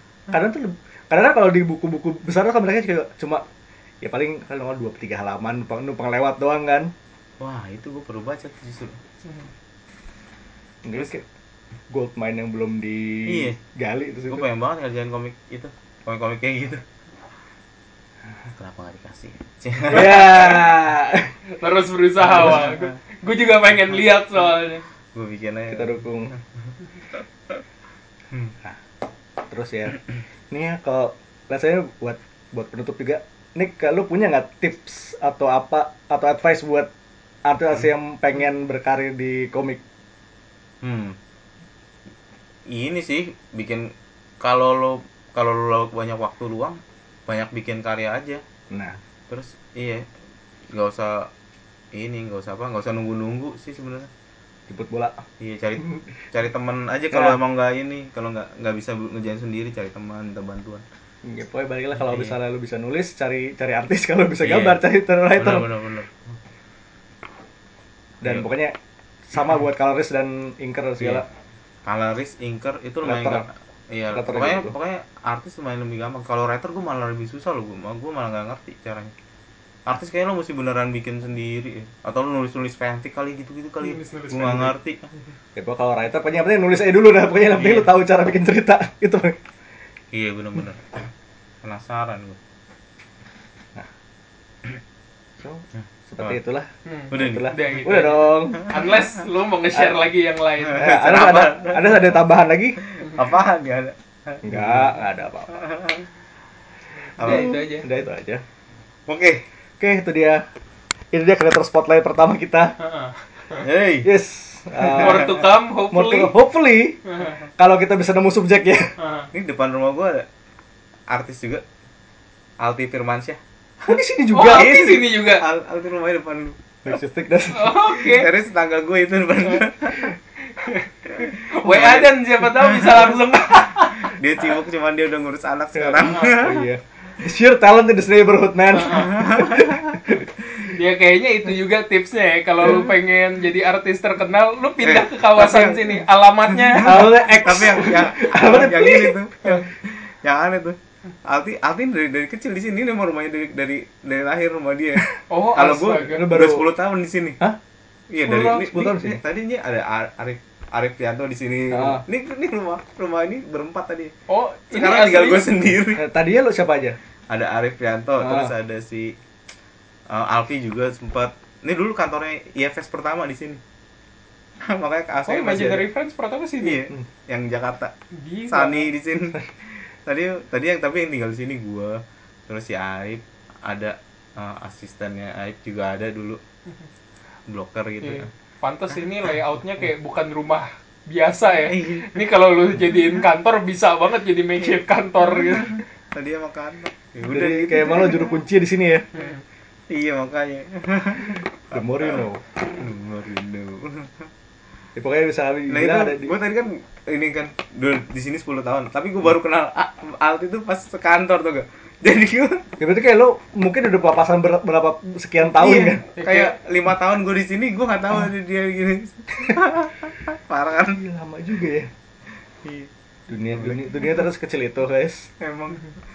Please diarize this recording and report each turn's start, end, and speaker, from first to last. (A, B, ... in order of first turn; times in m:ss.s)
0:00.3-0:03.4 A
0:04.0-0:06.9 A
0:07.4-0:09.0 B
0:10.8-0:11.2 A
0:11.9-0:14.4 A
0:13.3-0:13.6 B
0:14.3-0:16.8 B
0:18.4-0:20.5 B
0:19.9-0:21.3 A
0:21.5-0:24.8 C
0:22.2-0:22.8 B
0:25.1-0:26.4 B
0:25.7-0:26.3 A
0:29.5-0:30.0 A
0:30.5-0:36.9 A
0:37.4-0:39.8 A
0:40.8-0:41.2 B
0:42.7-0:48.4 B
0:48.7-0:49.0 A
0:49.3-0:50.0 B
0:50.7-0:51.3 B
0:51.9-0:54.1 B
0:54.7-0:55.2 A
0:55.4-1:00.8 B
1:01.2-1:05.7 A
1:02.0-1:02.4 B
1:04.4-1:04.8 B
1:05.3-1:06.4 B
1:08.2-1:08.8 A
1:09.3-1:11.2 A
1:11.0-1:11.2 B
1:11.8-1:19.1 B
1:13.0-1:13.4 A
1:14.1-1:14.7 A
1:19.8-1:25.1 B
1:23.8-1:24.7 C
1:25.6-1:29.4 A
1:27.6-1:27.9 B
1:30.1-1:31.1 B
1:31.6-1:32.4 B
1:35.4-1:38.6 A
1:36.8-1:40.8 C
1:37.1-1:37.5 B
1:40.6-1:42.2 B
1:40.7-1:42.8 A
1:42.8-1:45.0 B
1:44.4-1:45.7 A
1:45.5-1:46.0 B
1:47.2-1:47.9 C
1:47.2-1:47.6 B
1:47.2-1:48.4 A
1:49.1-1:49.4 B
1:49.8-1:50.4 A
1:51.1-1:52.7 A
1:52.8-1:53.6 C
1:53.6-1:54.1 B
1:54.0-1:55.4 A
1:54.9-1:56.3 C
1:55.9-1:57.0 A
1:57.0-1:57.4 C
1:57.6-1:58.9 A
1:59.0-1:59.3 C
1:59.3-2:00.3 B
2:01.1-2:01.6 B
2:02.6-2:03.9 B
2:03.8-2:04.8 A
2:04.3-2:05.4 C
2:04.5-2:06.7 B
2:06.8-2:07.8 A
2:07.5-2:08.3 C
2:07.9-2:10.1 B
2:10.6-2:10.8 C
2:11.0-2:13.1 B
2:11.4-2:14.2 C
2:14.1-2:16.6 B
2:15.7-2:20.2 A
2:16.0-2:16.4 C
2:18.7-2:19.2 C
2:18.9-2:20.0 B
2:20.6-2:27.2 C
2:24.8-2:26.0 B
2:26.6-2:37.4 B
2:26.8-2:29.1 A
2:35.3-2:36.3 C
2:36.1-2:36.6 A
2:38.1-2:44.1 B
2:38.3-2:39.2 A
2:41.7-2:42.0 A
2:44.3-2:45.5 C
2:44.7-2:46.0 B
2:45.9-2:47.0 A
2:47.3-2:49.2 B
2:48.2-2:48.5 A
2:50.1-2:53.6 B
2:54.6-2:55.8 B
2:55.2-2:56.8 C
2:56.6-2:57.9 B
2:58.1-2:58.9 C
2:58.5-3:06.4 B
3:07.5-3:08.3 B
3:08.0-3:15.8 C
3:11.7-3:12.2 B
3:14.6-3:18.3 B
3:17.2-3:19.0 A
3:19.1-3:19.4 C
3:19.9-3:24.3 B
3:21.7-3:22.4 A
3:24.9-3:26.4 A
3:25.7-3:32.7 B
3:32.8-3:36.0 A
3:35.6-3:41.0 B
3:36.2-3:36.5 C
3:40.9-3:41.9 A
3:42.6-3:42.9 B
3:43.3-3:45.3 A
3:43.5-3:44.0 B
3:45.4-3:45.9 B